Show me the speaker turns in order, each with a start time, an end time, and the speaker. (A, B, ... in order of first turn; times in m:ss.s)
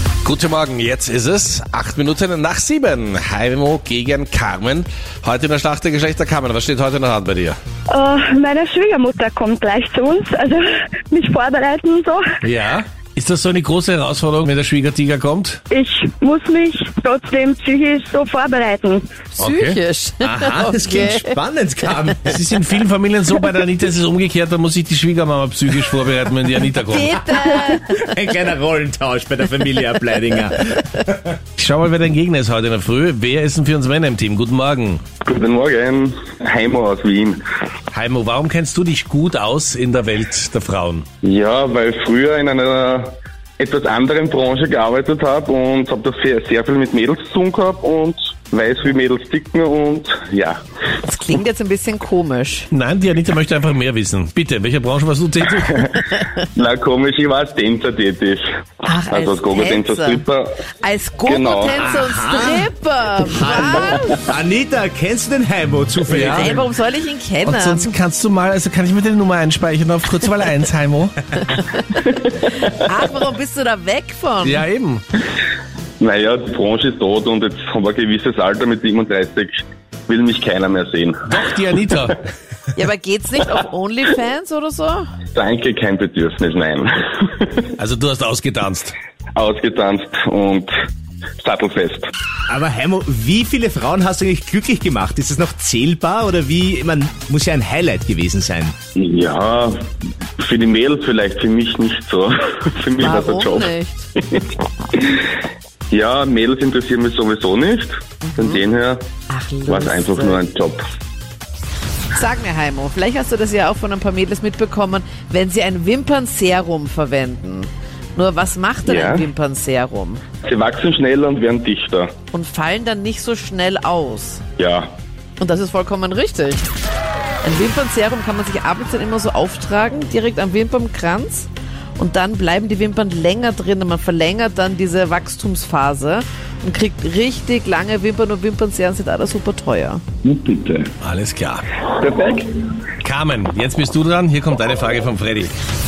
0:00.2-0:07.6 A
0:07.9-0:12.2 B
0:12.4-0:15.6 A
0:15.7-0:19.2 B
0:19.3-0:21.4 C
0:19.4-0:19.8 A
0:20.2-0:22.4 D
0:22.2-0:27.2 A
0:26.8-0:28.2 C
0:27.8-0:31.4 D
0:31.6-0:35.0 A
0:35.2-0:37.4 E
0:37.9-0:41.0 A
0:41.2-0:50.6 E
0:51.0-0:52.7 C
0:52.7-0:55.9 A
0:55.7-0:58.4 E
0:58.8-1:00.2 C
0:59.1-1:00.5 E
1:00.8-1:04.2 C
1:01.2-1:01.7 E
1:01.7-1:06.6 D
1:06.1-1:06.6 A
1:06.1-1:07.9 C
1:07.4-1:11.2 A
1:11.4-1:11.8 C
1:12.8-1:14.6 C
1:14.4-1:15.0 A
1:16.0-1:21.2 E
1:21.3-1:22.1 A
1:22.8-1:25.1 C
1:25.3-1:27.7 E
1:27.8-1:28.9 A
1:29.4-1:30.7 E
1:31.4-1:32.1 E
1:32.5-1:38.8 D
1:39.0-1:39.8 E
1:40.4-1:45.2 E
1:43.0-1:44.1 C
1:45.9-1:49.0 E
1:48.2-1:48.6 C
1:49.3-1:50.4 C
1:49.7-1:50.8 E
1:52.1-2:00.2 C
1:58.8-1:59.2 E
2:00.4-2:02.1 E
2:02.3-2:04.4 C
2:04.6-2:04.9 E
2:05.4-2:06.7 C
2:07.4-2:20.0 C
2:20.2-2:20.9 E
2:21.0-2:21.6 A
2:21.9-2:22.7 E
2:23.0-2:25.5 A